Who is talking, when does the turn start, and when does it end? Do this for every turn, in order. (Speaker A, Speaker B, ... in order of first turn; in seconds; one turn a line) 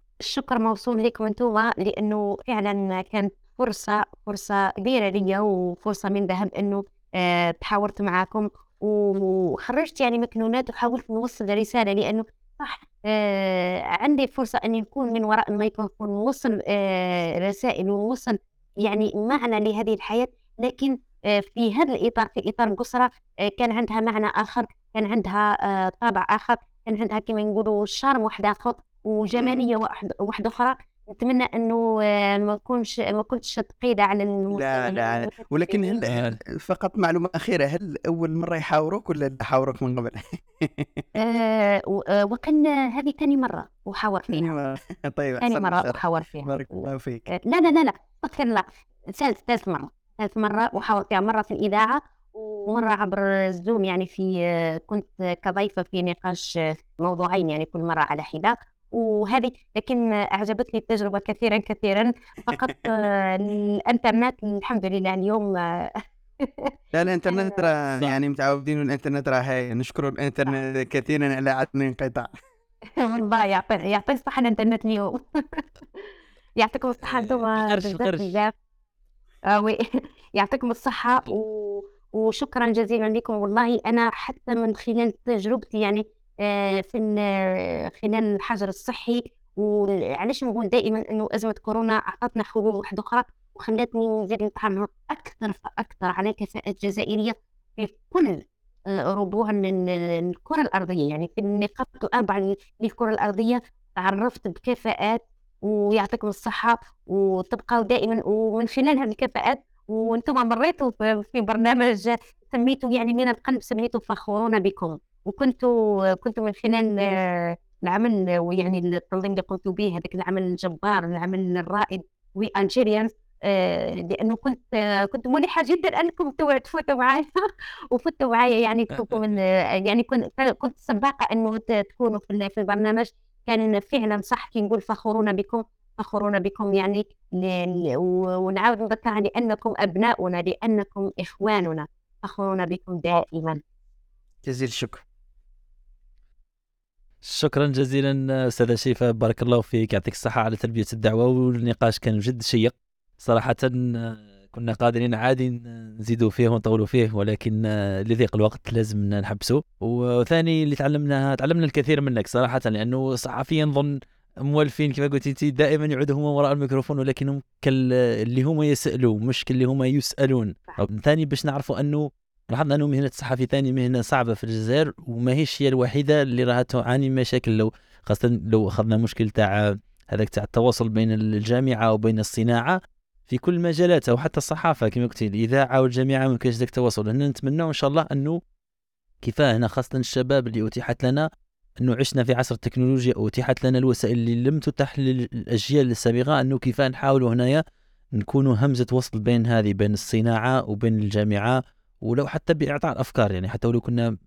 Speaker A: 0.2-36.0
Speaker B: 34.5-41.0
Speaker A: 41.1-44.5
Speaker B: 44.3-47.3
Speaker A: 45.4-66.7
Speaker B: 66.9-72.3
Speaker A: 67.3-67.7
Speaker A: 73.0-78.5
Speaker C: 77.0-78.3
Speaker A: 79.5-79.8
Speaker A: 80.3-98.4
Speaker A: 99.0-143.6
Speaker B: 144.4-145.0
Speaker C: 147.2-188.4
Speaker C: 189.2-191.2
Speaker C: 191.8-197.6
Speaker C: 198.2-204.1